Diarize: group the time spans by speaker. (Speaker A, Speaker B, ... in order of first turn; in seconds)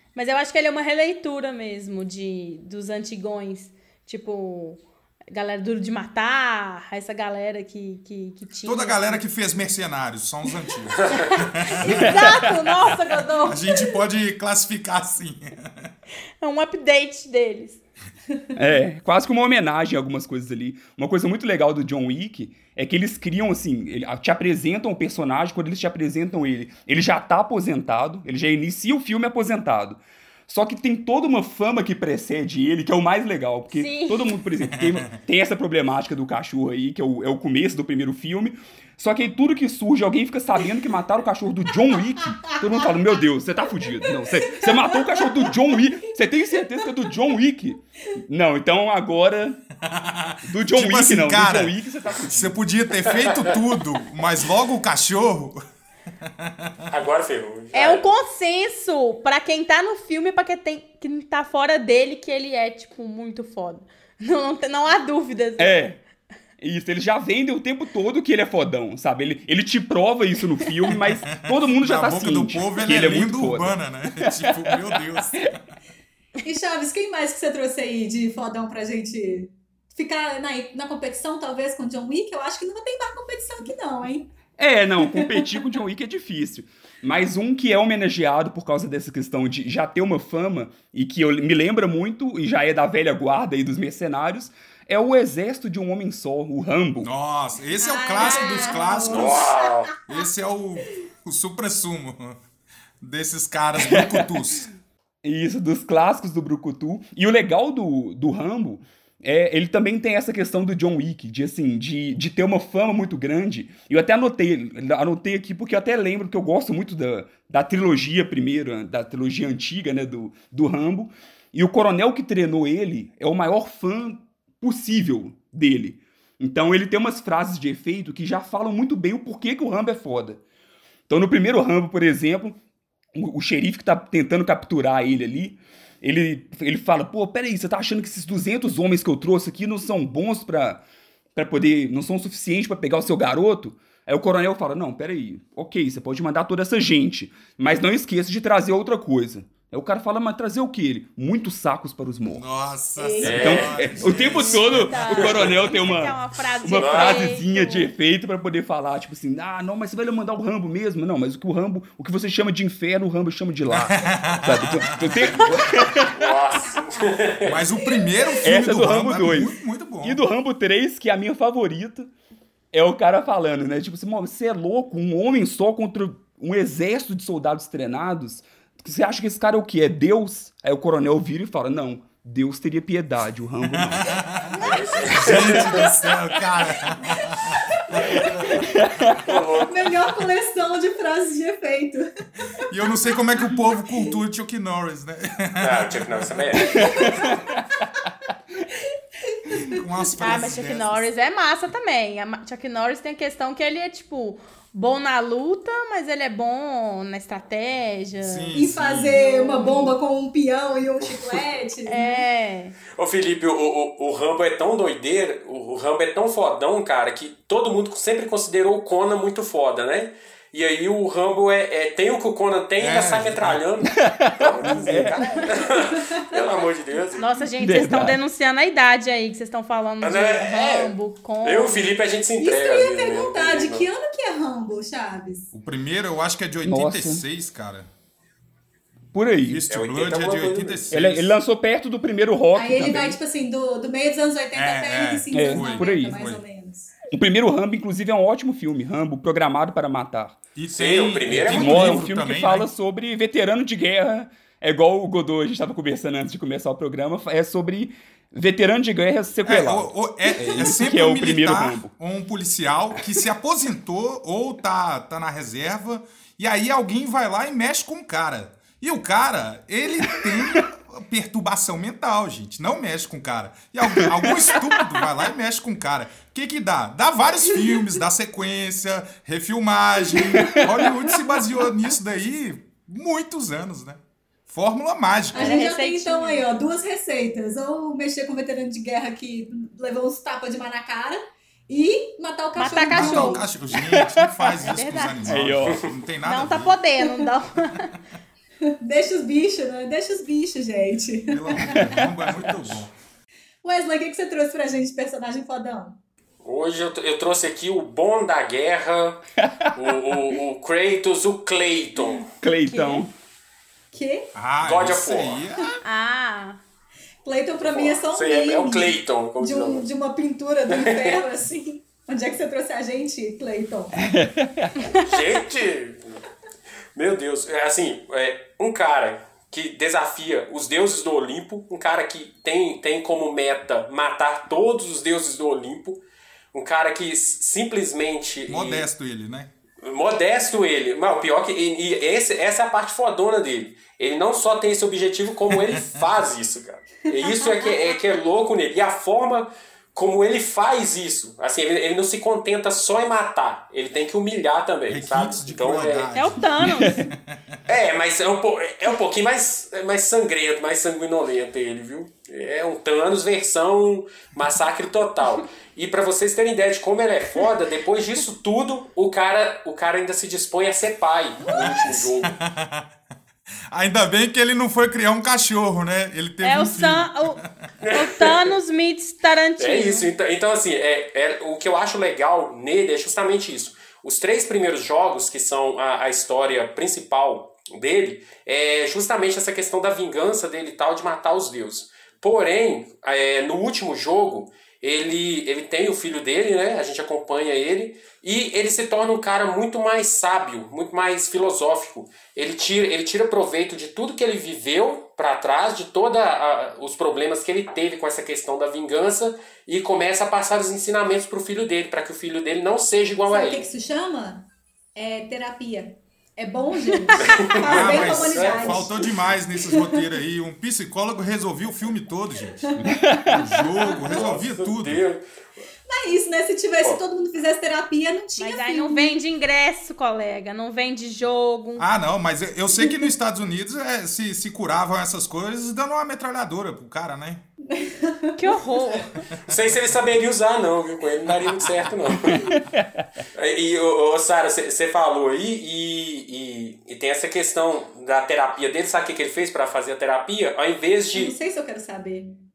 Speaker A: 0.1-9.2, 11.7-13.4, 16.4-17.8, 33.7-34.3, 57.7-65.9, 154.8-157.9, 200.2-208.5, 209.1-210.0, 211.8-212.8, 227.2-231.9, 285.4-286.5, 292.6-293.4, 294.6-295.4, 296.2-297.9, 312.8-313.0, 315.8-316.6, 356.1-357.1, 376.4-377.4, 377.9-380.1, 428.4-431.9, 438.4-439.2
Speaker B: 8.7-12.2, 13.5-15.9, 34.7-35.0, 49.8-55.6, 56.2-56.9, 71.3-75.6, 97.0-99.5, 100.1-102.4, 103.0-104.7, 152.3-155.0, 163.7-165.9, 167.4-170.2, 183.7-189.0, 192.6-196.8, 199.7-201.1, 208.2-209.2, 222.8-223.6, 235.5-237.9, 239.4-241.3, 244.5-246.4, 250.5-252.7, 259.4-285.6, 292.9-296.8, 301.3-302.9, 314.4-315.8, 338.5-339.5, 345.5-345.8, 354.9-357.6, 371.9-372.9, 373.7-377.5, 417.7-425.0, 431.8-437.4, 439.5-440.0
Speaker C: 11.0-11.3, 56.9-58.1, 98.2-99.9, 153.2-155.6, 156.7-157.3, 166.1-167.6, 184.6-185.9, 189.2-189.9, 195.6-197.0, 212.9-227.2, 230.0-233.9, 239.7-240.9, 250.8-252.1, 295.6-295.9, 306.4-312.3, 314.6-315.4, 317.6-319.9, 320.7-321.2, 324.9-326.2, 326.9-336.0, 336.5-338.9, 339.8-356.1, 357.6-372.4, 377.8-378.6, 379.6-413.6, 417.2-418.9, 423.9-425.2, 439.5-442.5, 443.3-451.4
Speaker D: 11.3-13.9, 44.0-45.5, 76.4-84.3, 85.0-85.4, 97.8-99.9, 153.0-153.7, 166.7-167.0, 167.9-168.4, 184.5-186.1, 186.9-188.6, 189.6-192.1, 196.8-197.2, 198.7-199.8, 208.5-212.2, 224.9-226.3, 232.4-235.5, 242.5-247.0, 285.3-293.5, 298.8-301.9, 303.6-306.0, 313.9-314.3, 317.2-324.0, 347.1-348.0, 371.4-372.0, 413.3-420.0, 422.6-423.4, 425.9-429.1, 437.7-438.4, 451.1-452.4
Speaker E: 12.0-12.3, 18.6-49.6, 50.5-52.5, 65.6-66.0, 66.6-74.8, 84.6-97.1, 103.8-104.7, 105.2-130.4, 131.1-132.6, 133.1-140.8, 141.3-152.4, 153.2-166.1, 168.4-172.1, 172.7-184.1, 188.5-189.3, 196.6-197.4, 223.9-225.2, 227.6-228.2, 236.6-237.2, 239.1-239.6, 240.9-243.2, 245.3-246.1, 247.1-250.4, 251.3-261.9, 273.9-274.7, 280.1-280.7, 293.8-294.3, 295.2-295.9, 301.6-302.1, 309.4-309.9, 312.4-313.1, 323.9-324.8, 356.6-357.0, 422.8-423.7, 442.4-443.2